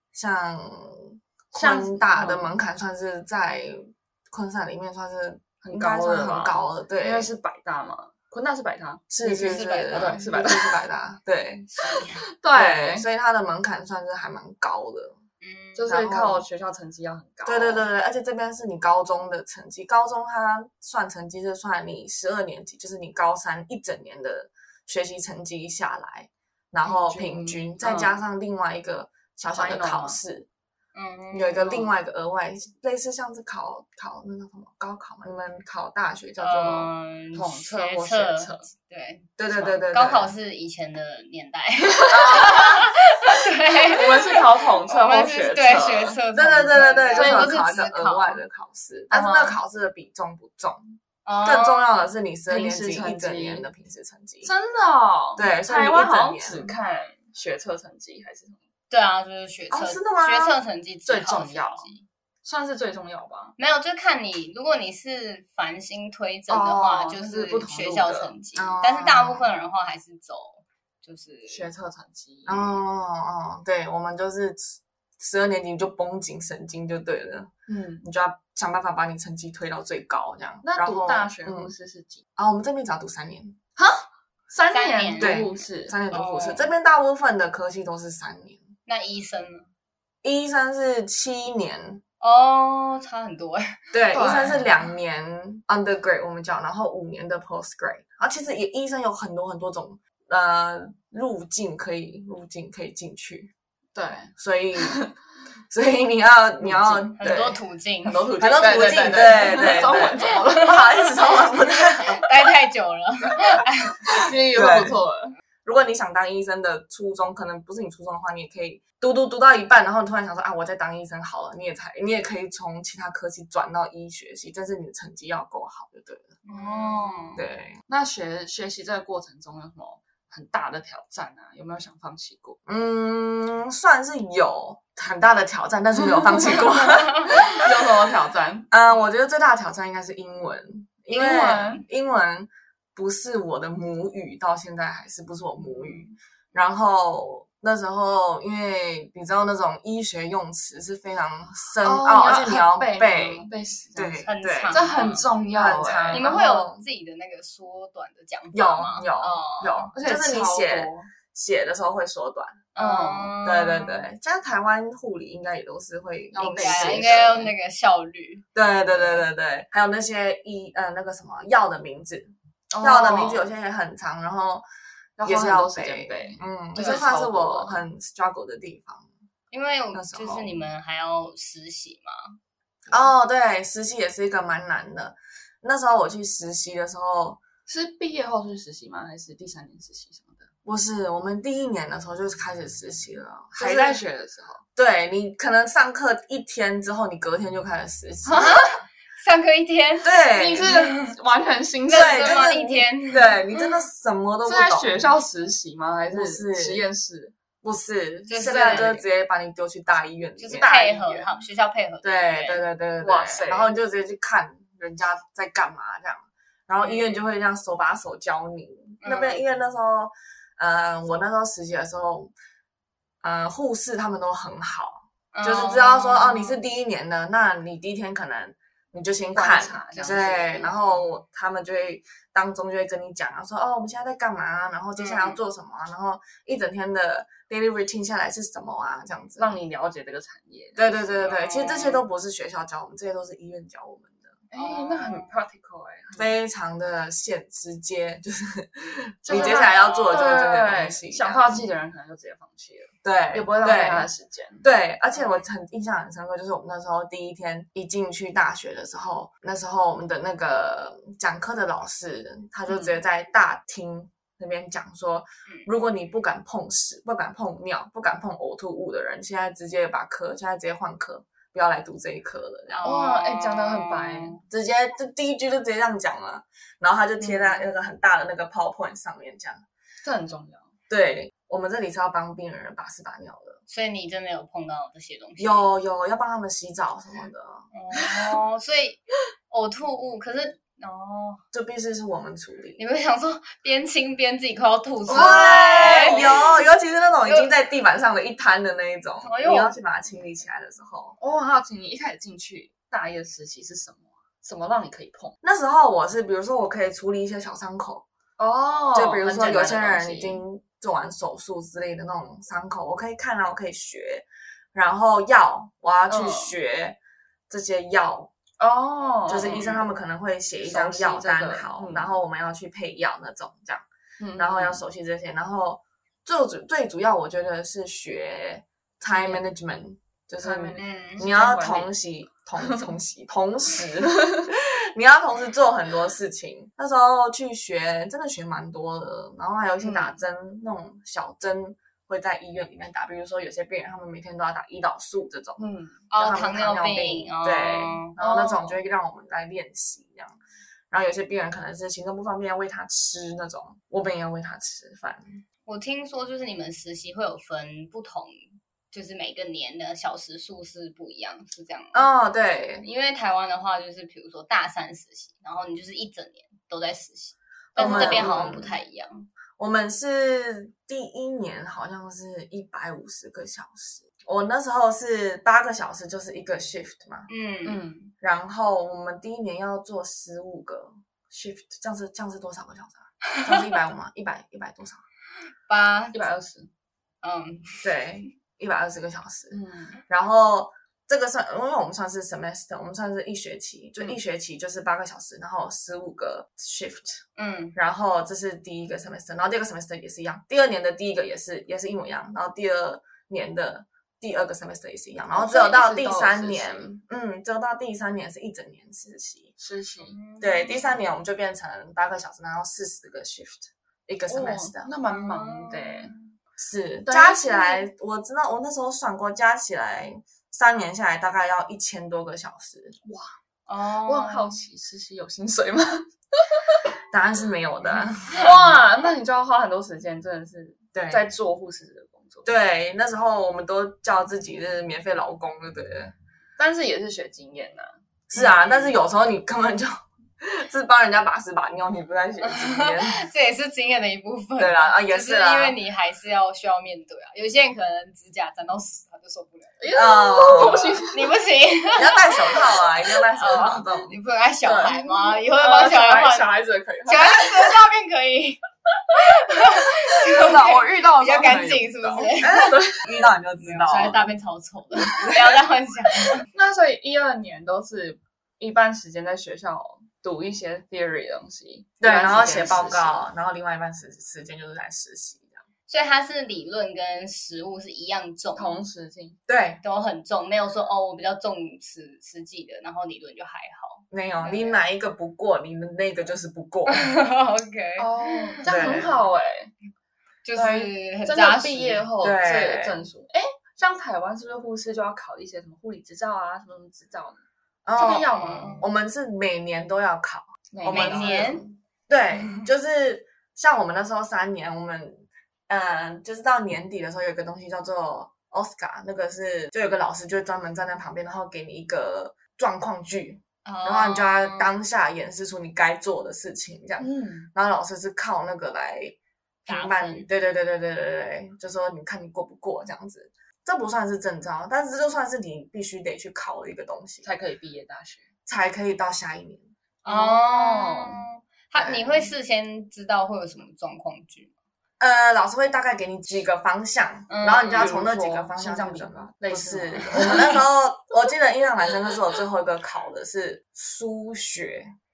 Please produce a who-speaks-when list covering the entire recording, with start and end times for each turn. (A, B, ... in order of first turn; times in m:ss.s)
0:00.1-0:07.3 A
0:01.5-0:02.6 B
0:05.6-0:10.8 B
0:09.1-0:11.7 A
0:09.2-0:10.3 C
0:11.7-0:12.3 C
0:12.2-0:13.1 B
0:12.5-0:15.2 A
0:15.4-0:16.0 C
0:15.8-0:17.9 B
0:15.9-0:16.4 A
0:17.4-0:30.5 A
0:26.8-0:28.1 B
0:29.6-0:30.2 B
0:31.0-0:31.9 C
0:31.3-0:36.9 A
0:36.4-0:48.4 C
0:37.3-0:38.7 B
0:39.4-0:40.3 A
0:41.8-0:42.8 B
0:42.1-0:42.8 A
0:43.9-0:46.2 B
0:46.4-0:54.5 A
0:47.2-0:47.6 B
0:49.1-0:49.6 B
0:51.3-0:51.9 C
0:52.5-0:53.6 B
0:54.4-0:58.6 B
0:55.4-0:56.7 A
0:58.9-1:02.0 C
0:59.7-1:00.6 A
1:01.1-1:03.6 B
1:03.6-1:11.7 C
1:06.5-1:08.4 B
1:08.6-1:09.5 A
1:11.5-1:12.8 B
1:12.5-1:17.5 A
1:17.7-1:18.0 B
1:18.0-1:21.7 A
1:20.6-1:22.2 B
1:22.4-1:23.6 A
1:23.8-1:26.0 B
1:24.7-1:25.5 C
1:25.2-1:28.6 A
1:26.1-1:26.7 C
1:28.9-1:29.7 C
1:30.2-1:32.0 A
1:32.2-1:34.5 C
1:33.9-1:43.5 A
1:34.1-1:34.7 B
1:44.0-1:45.1 B
1:44.4-1:45.0 A
1:45.7-1:47.6 A
1:46.6-1:47.1 B
1:47.2-1:54.2 C
1:48.0-1:50.8 B
1:48.4-1:52.3 A
1:54.1-1:55.4 B
1:54.2-1:55.0 A
1:55.6-2:06.4 A
2:06.4-2:07.4 C
2:06.5-2:12.6 B
2:07.4-2:07.8 A
2:12.7-2:17.7 A
2:16.1-2:16.6 B
2:17.2-2:18.7 B
2:18.7-2:34.8 A
2:21.1-2:21.8 B
2:25.8-2:26.1 C
2:31.8-2:36.4 B
2:34.3-2:35.4 C
2:35.5-2:36.8 A
2:36.1-2:39.9 C
2:38.5-2:42.6 A
2:39.0-2:41.1 B
2:42.8-2:44.1 C
2:42.8-2:43.4 B
2:43.4-2:47.5 A
2:46.4-2:47.5 B
2:46.4-2:48.4 C
2:48.6-2:54.7 A
2:52.7-2:53.4 B
2:55.2-2:57.8 B
2:55.2-2:59.1 A
2:56.8-2:57.1 C
2:59.5-3:02.4 C
2:59.9-3:00.6 A
3:02.9-3:07.4 A
3:07.7-3:10.5 B
3:10.6-3:14.0 A
3:13.5-3:14.6 B
3:14.8-3:18.7 A
3:18.2-3:18.7 B
3:18.3-3:21.2 C
3:20.0-3:20.7 A
3:20.3-3:22.6 B
3:21.9-3:23.8 C
3:21.9-3:25.0 A
3:24.4-3:27.3 B
3:26.1-3:26.8 A
3:27.6-3:30.7 A
3:28.3-3:29.0 C
3:28.4-3:28.9 B
3:30.4-3:32.6 C
3:30.5-3:31.3 B
3:32.0-3:42.3 A
3:33.0-3:33.7 B
3:39.0-3:39.4 C
3:43.2-3:59.6 A
3:45.3-3:46.6 C
3:49.3-3:50.7 B
3:50.0-3:51.0 C
3:55.0-3:55.4 C
3:59.4-4:01.3 B
4:00.8-4:04.3 A
4:01.2-4:02.0 C
4:04.5-4:06.4 B
4:04.6-4:05.3 C
4:06.2-4:11.6 A
4:09.2-4:14.6 B
4:09.3-4:10.4 C
4:13.0-4:14.1 A
4:14.6-4:32.9 A
4:15.1-4:15.5 C
4:22.7-4:23.0 B
4:32.7-4:34.4 C
4:32.8-4:34.4 B
4:34.5-4:39.6 A
4:37.2-4:37.6 B
4:40.0-4:40.7 B
4:40.9-4:43.6 A
4:43.7-4:45.7 C
4:45.4-4:47.7 A
4:47.7-4:51.4 C
4:48.0-4:48.4 B
4:51.5-4:52.8 A
4:52.8-4:56.3 C
4:55.1-5:01.2 A
4:55.1-4:56.3 B
4:59.2-5:00.3 C
5:01.2-5:05.4 B
5:05.4-5:08.1 A
5:08.4-5:10.4 B
5:08.9-5:17.0 A
5:16.1-5:16.5 B
5:17.5-5:18.3 A
5:18.6-5:19.8 B
5:19.3-5:23.8 A
5:20.6-5:22.2 B
5:24.2-5:24.8 B
5:24.4-5:50.4 A
5:29.1-5:29.4 B
5:30.4-5:31.9 B
5:30.8-5:31.4 C
5:32.6-5:32.9 B
5:34.0-5:34.5 B
5:39.8-5:40.2 B
5:45.6-5:46.0 B
5:46.1-5:48.2 C
5:48.2-5:48.7 B
5:50.9-5:55.4 A
5:55.7-6:02.1 C
6:01.9-6:02.9 A
6:02.8-6:09.3 C
6:07.8-6:08.3 B
6:07.8-6:08.8 A
6:09.6-6:17.3 A
6:17.3-6:17.8 C
6:17.6-6:18.1 B
6:18.2-6:25.0 A
6:23.3-6:23.8 C
6:25.7-6:26.2 C
6:26.1-6:26.7 B
6:27.2-6:27.9 C
6:27.8-6:37.2 A
6:29.5-6:30.0 B
6:37.4-6:37.8 C
6:37.8-6:49.5 A
6:45.4-6:47.0 B
6:49.6-6:50.2 B
6:50.0-6:51.1 C
6:50.4-6:54.9 A
6:54.3-6:56.2 B
6:55.1-6:56.2 C
6:56.6-7:03.0 A
6:57.1-6:57.8 B
7:03.0-7:03.3 B
7:03.7-7:04.6 C
7:04.0-7:06.8 B
7:07.1-7:08.8 A
7:08.3-7:12.5 B
7:11.0-7:11.3 A
7:12.5-7:16.1 A
7:16.6-7:19.0 B
7:18.3-7:23.2 A
7:22.4-7:36.6 C
7:24.6-7:25.8 A
7:29.8-7:31.4 B
7:29.9-7:31.0 A
7:32.0-7:34.2 A
7:34.6-7:37.8 B
7:37.1-7:38.6 C
7:39.1-7:42.8 C
7:40.1-7:43.0 B
7:40.3-7:44.4 A
7:43.6-7:46.5 C
7:45.2-7:45.6 A
7:46.5-7:53.2 B
7:52.0-7:55.6 A
7:55.9-7:58.8 C
7:58.6-7:59.4 B
7:59.5-7:59.8 A
7:59.8-8:04.8 C
8:04.1-8:07.1 A
8:06.9-8:08.6 C
8:08.0-8:09.7 B
8:08.6-8:09.2 A
8:10.4-8:12.1 C
8:10.6-8:17.4 B
8:12.2-8:13.1 A
8:17.8-8:47.3 A
8:18.0-8:18.8 B
8:18.3-8:18.9 C
8:20.7-8:21.6 B
8:20.9-8:21.6 C
8:33.7-8:34.7 C
8:37.0-8:37.5 B
8:39.7-8:40.3 C
8:47.2-8:48.2 B
8:48.5-8:49.7 A
8:50.0-8:51.3 B
8:50.0-8:54.5 C
8:51.8-8:52.3 A
8:55.0-9:04.9 A
8:57.3-8:58.0 C
8:57.7-9:00.6 B
9:00.1-9:00.6 C